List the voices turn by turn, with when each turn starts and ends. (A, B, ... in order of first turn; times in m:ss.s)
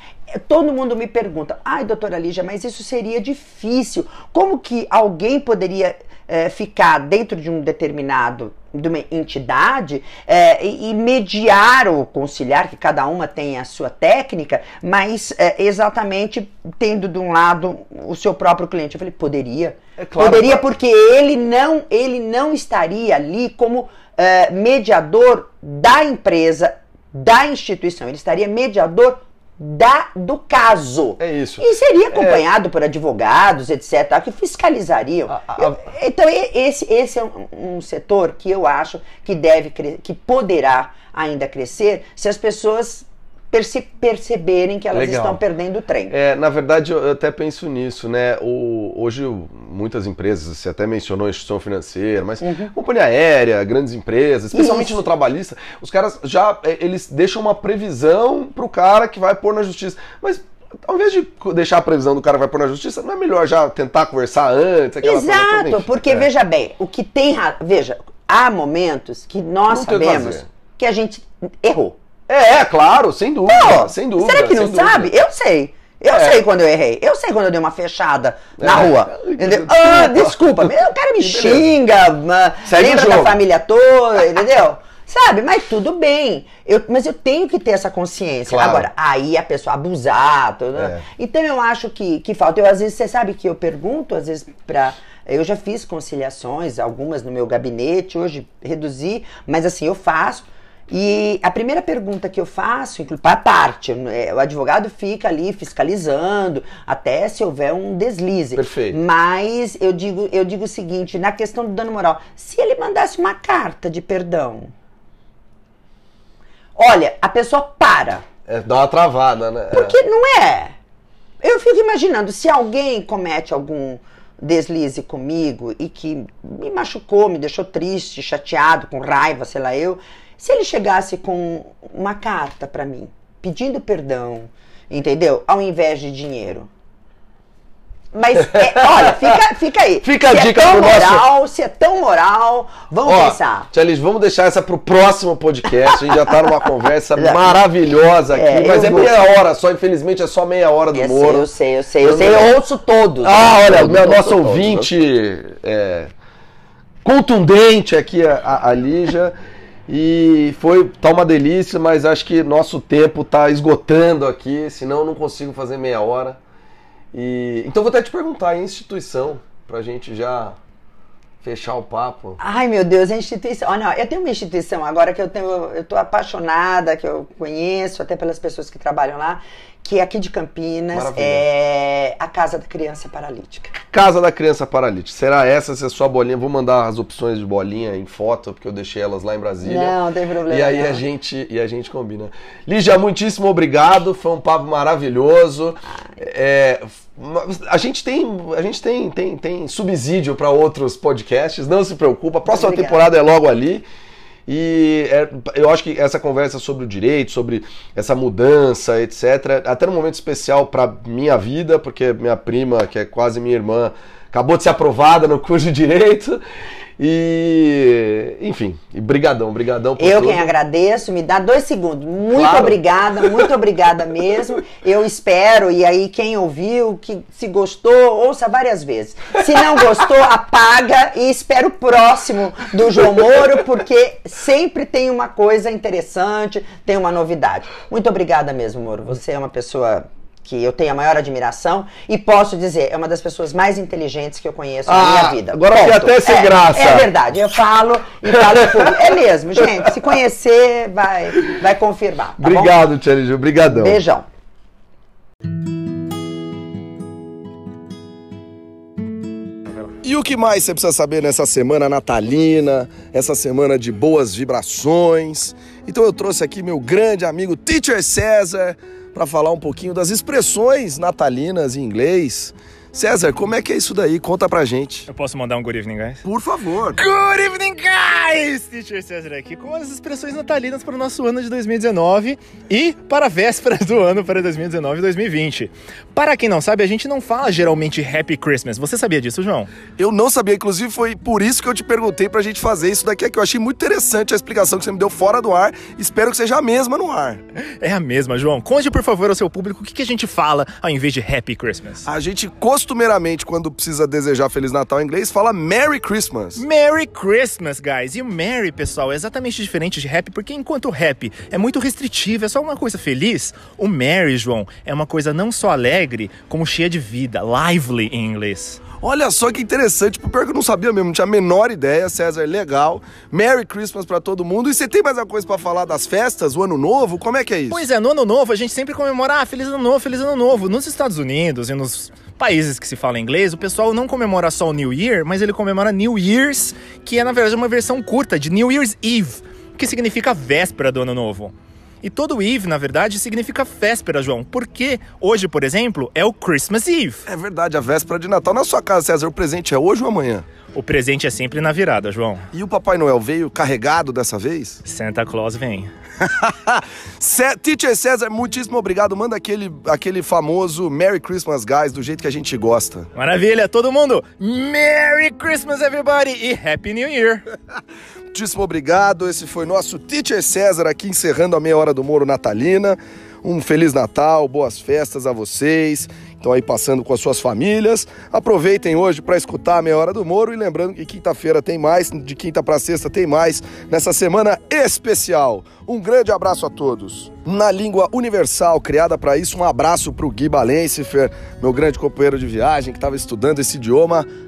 0:00.3-0:46.1 A
0:20.0-0:20.7 B
0:31.2-0:32.4 B
0:35.3-0:35.8 B
0:44.9-0:45.4 B
0:46.1-1:06.3 B
0:52.4-0:52.7 A
0:54.5-0:55.0 A
1:05.0-1:12.0 A
1:09.7-1:10.4 B
1:12.3-1:15.1 B
1:13.4-1:54.7 A
1:16.1-1:16.4 B
1:18.6-1:20.7 B
1:21.2-1:21.7 B
1:22.6-1:23.4 B
1:28.5-1:28.9 B
1:30.8-1:31.0 B
1:48.5-1:49.0 B
1:56.8-1:58.2 A
1:58.5-2:00.0 B
1:59.7-2:00.8 A
2:01.4-2:16.7 A
2:18.1-2:23.7 A
2:18.4-2:19.4 B
2:20.0-2:21.3 B
2:23.0-2:31.4 B
2:27.2-2:27.6 A
2:28.3-2:29.1 A
2:30.9-2:34.9 A
2:32.0-2:32.5 B
2:33.2-2:36.1 B
2:37.0-2:39.3 B
2:39.9-2:46.4 B
2:47.1-2:50.6 B
2:51.4-2:52.4 B
2:52.4-3:03.7 A
3:00.9-3:01.4 B
3:03.9-3:10.0 B
3:09.6-3:11.0 A
3:10.5-3:23.8 B
3:22.5-3:23.0 A
3:24.5-3:36.4 B
3:37.0-3:40.5 B
3:40.0-4:12.8 A
3:42.3-3:43.3 B
4:04.8-4:07.1 B
4:08.4-4:09.0 B
4:12.4-4:14.0 B
4:13.6-4:14.3 A
4:20.0-4:35.1 B
4:35.1-4:36.2 C
4:36.2-4:37.0 B
4:37.0-4:49.7 C
4:50.0-4:57.4 B
4:57.8-5:02.0 C
5:02.0-5:06.6 B
5:06.5-5:18.8 C
5:19.0-5:27.8 B
5:27.7-5:47.2 C
5:47.3-5:50.4 B
5:50.7-5:52.5 C
5:52.5-5:54.8 B
5:54.8-5:55.9 C
5:56.2-6:03.1 B
6:03.1-6:07.4 C
6:08.3-6:34.2 B